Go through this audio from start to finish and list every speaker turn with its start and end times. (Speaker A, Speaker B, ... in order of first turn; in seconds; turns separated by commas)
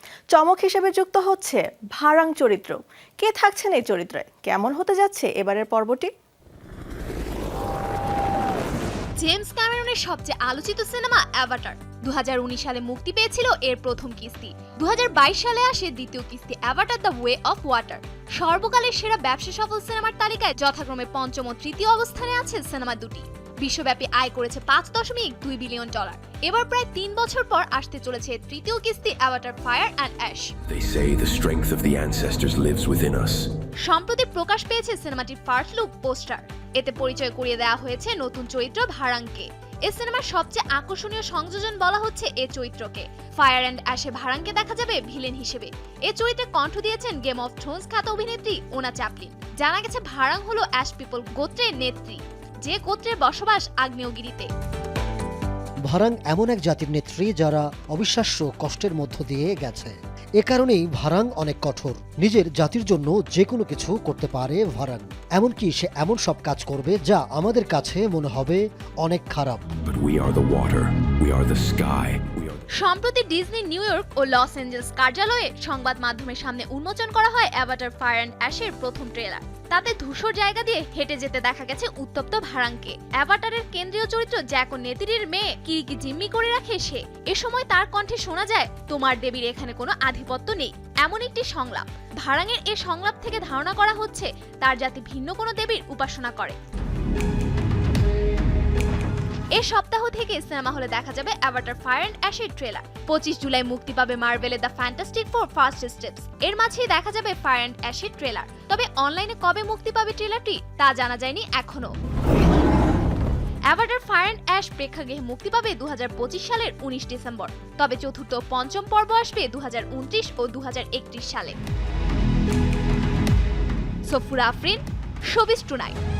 Speaker A: 0.3-6.1, Speaker B: 9.2-30.5, Speaker C: 30.7-33.5, Speaker B: 33.8-54.5, Speaker D: 55.9-69.6, Speaker C: 69.8-72.6, Speaker B: 72.8-96.5, Speaker B: 99.5-111.9, Speaker B: 113.7-121.6, Speaker B: 124.1-126.0